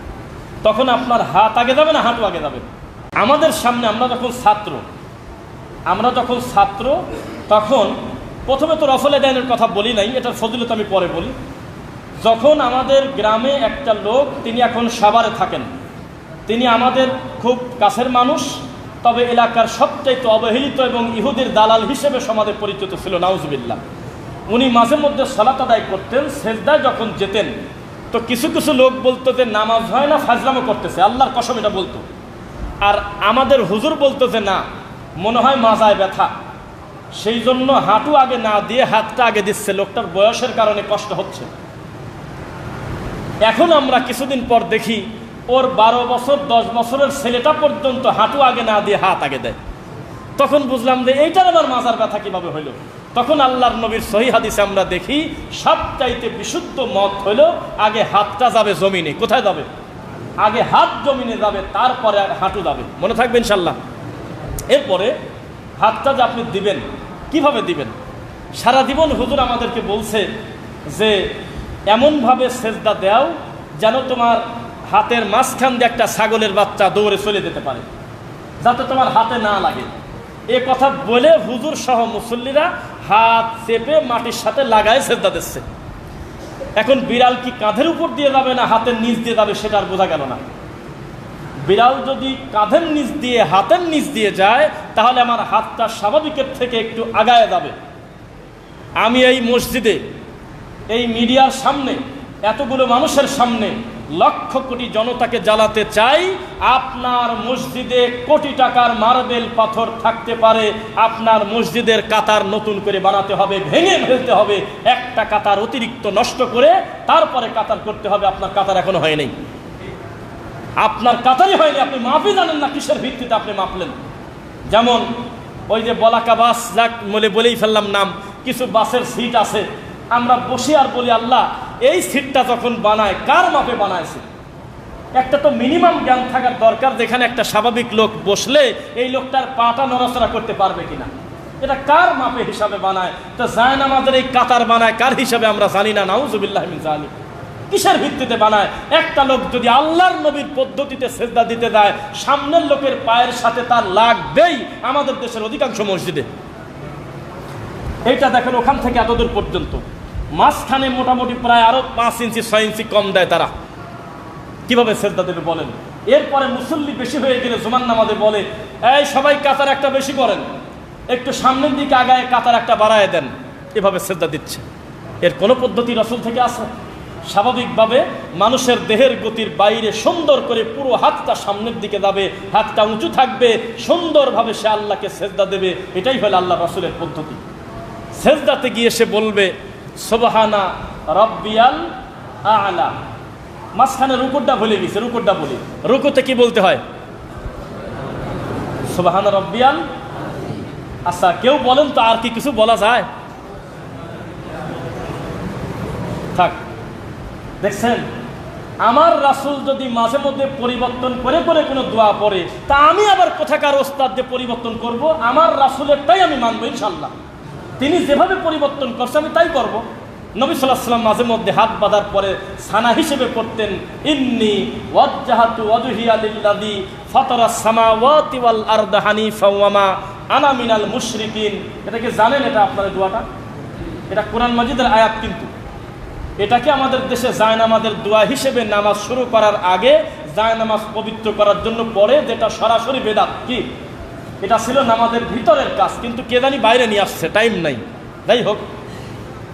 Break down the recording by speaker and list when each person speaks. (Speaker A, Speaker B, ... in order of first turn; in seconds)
Speaker A: 0.6-2.6, 3.2-4.8, 5.9-7.9, 8.5-11.3, 12.2-15.7, 16.5-23.8, 24.5-27.5, 28.1-32.0, 32.8-34.6, 35.2-36.3, 37.1-41.5, 43.4-49.6, 50.4-59.6, 60.4-63.8, 64.7-65.1, 65.8-67.9, 68.5-70.3, 70.9-71.2, 71.9-77.8, 78.6-79.9, 80.5-85.6, 86.8-90.4, 91.6-97.7, 99.0-100.0, 100.9-119.3, 120.8-123.9, 124.7-125.0, 125.7-134.2, 135.1-141.1, 141.6-147.1, 147.7-156.3, 158.1-163.5, 164.7-170.4, 171.1-174.6, 175.2-176.7, 177.3-187.4, 188.1-191.8, 192.4-192.9, 193.7-196.8, 198.9-199.8, 201.1-203.1, 206.3-206.6, 207.6-208.0, 208.8-217.1, 217.8-219.8, 220.4-233.2, 234.1-235.5, 236.4-243.6, 244.4-248.6